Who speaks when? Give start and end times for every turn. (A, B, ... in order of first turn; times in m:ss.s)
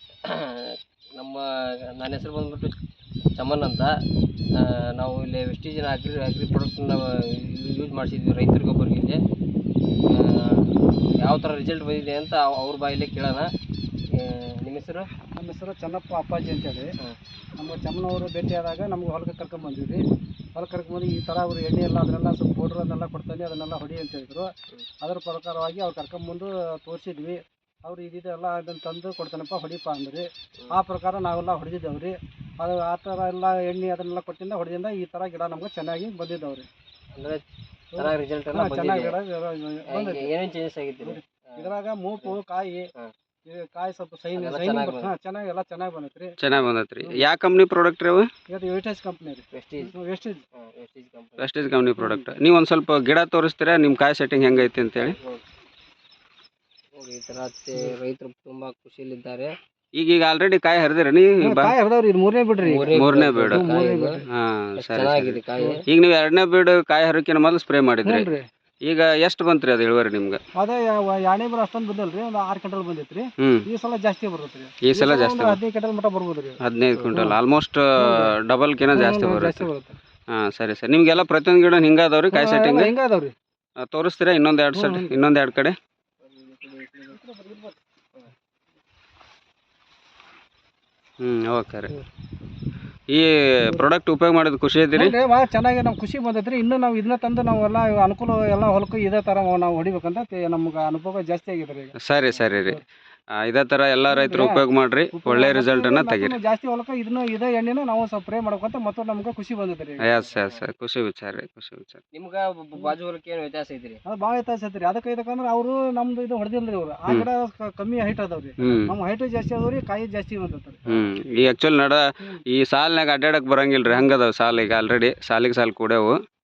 0:00.3-0:02.8 A
0:03.4-0:03.9 A
0:04.5-0:09.2 A
0:10.1-0:10.7 A
0:11.2-0:13.5 A
0:14.2-0:15.1 A
0:15.4-0:16.9 B
0:17.6-0:20.0 B
0:20.6-0:24.5 B
0:25.0-0:36.7 B
0:37.1-0:37.4 A
0:37.9-0:40.3 B
0:38.0-0:39.1 A
0:39.9-0:41.7 A
0:41.0-0:42.9 B
0:43.4-0:46.3 B
0:44.3-0:45.1 A
0:46.4-0:48.3 C
0:48.5-0:50.4 B
0:49.5-0:49.9 A
0:50.6-0:51.5 A
0:51.4-0:55.2 C
0:52.0-0:52.3 B
0:54.5-0:55.4 A
0:57.0-0:59.5 A
1:00.0-1:01.7 C
1:01.4-1:02.9 B
1:02.6-1:04.1 A
1:02.9-1:03.6 C
1:03.5-1:04.2 B
1:04.3-1:08.3 C
1:04.8-1:05.7 A
1:08.0-1:08.4 B
1:08.8-1:10.4 C
1:10.6-1:16.6 B
1:13.4-1:13.6 C
1:14.8-1:15.6 C
1:16.6-1:19.7 C
1:17.1-1:17.4 B
1:18.0-1:18.3 B
1:18.9-1:20.0 B
1:20.3-1:22.9 C
1:22.3-1:23.3 B
1:23.9-1:25.8 C
1:24.7-1:25.1 B
1:26.2-1:27.2 A
1:27.1-1:27.8 B
1:31.2-1:31.9 C
1:33.1-1:35.1 C
1:34.9-1:41.9 B
1:42.0-1:42.8 C
1:43.4-1:46.4 C
1:44.1-1:44.6 B
1:45.1-1:50.1 B
1:50.0-1:52.0 C
1:50.2-1:50.6 A
1:52.1-1:54.0 A
1:54.0-2:00.8 B
1:58.6-1:58.9 C
2:00.9-2:06.1 C